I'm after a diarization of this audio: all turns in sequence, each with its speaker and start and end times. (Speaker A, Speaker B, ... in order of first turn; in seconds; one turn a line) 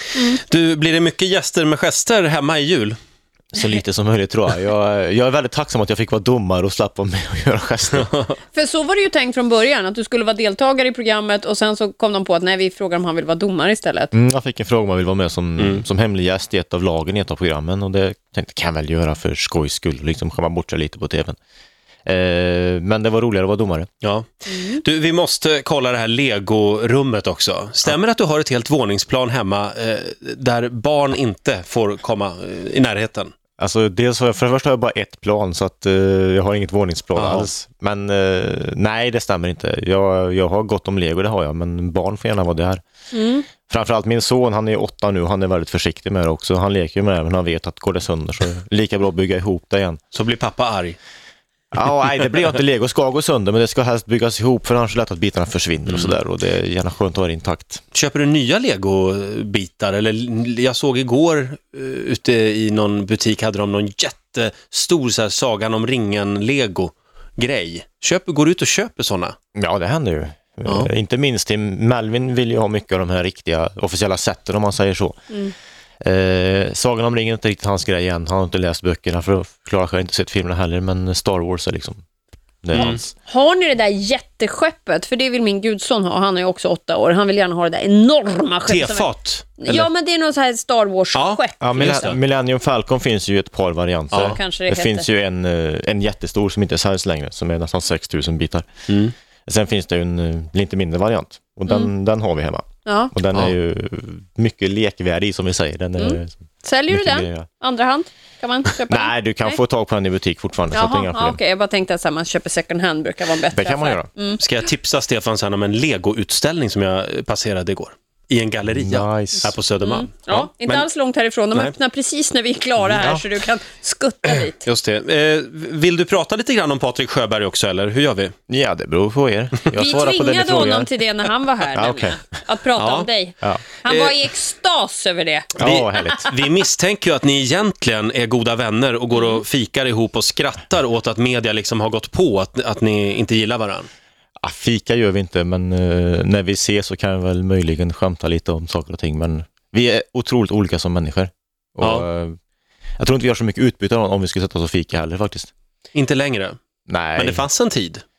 Speaker A: 0.3-3.0
Speaker B: 3.5-8.1
Speaker C: 8.5-14.1
Speaker B: 14.1-21.4
Speaker A: 15.6-15.8
Speaker B: 22.0-23.9
Speaker A: 24.0-33.3
Speaker C: 24.5-24.8
Speaker B: 33.6-42.8
Speaker A: 37.1-37.5
Speaker C: 43.1-43.5
Speaker B: 43.6-50.0
Speaker A: 50.1-51.0
Speaker B: 51.7-57.8
Speaker A: 55.9-56.1
Speaker A: 57.9-69.3
Speaker B: 69.5-75.2
Speaker A: 70.7-70.9
Speaker B: 76.0-82.0
Speaker B: 82.6-83.1
Speaker A: 82.7-83.0
Speaker C: 83.2-92.1
Speaker A: 88.7-89.9
Speaker A: 91.1-92.2
Speaker B: 91.6-98.7
Speaker A: 94.1-94.4
Speaker C: 94.2-95.1
Speaker A: 98.9-99.1
Speaker B: 99.5-107.5
Speaker C: 102.8-103.1
Speaker C: 106.0-109.6
Speaker B: 108.9-111.4
Speaker C: 110.7-114.4
Speaker B: 113.5-114.1
Speaker A: 114.4-120.9
Speaker B: 118.7-119.5
Speaker C: 119.8-124.6
Speaker B: 122.8-123.2
Speaker A: 124.3-128.3
Speaker B: 128.5-130.9
Speaker C: 129.7-135.5
Speaker B: 131.7-132.2
Speaker A: 132.8-133.1
Speaker A: 133.8-134.2
Speaker A: 135.6-143.9
Speaker B: 135.6-136.3
Speaker C: 139.2-139.4
Speaker B: 144.4-152.3
Speaker A: 151.8-152.1
Speaker B: 153.0-155.5
Speaker A: 155.9-156.6
Speaker B: 156.9-157.4
Speaker A: 157.1-158.0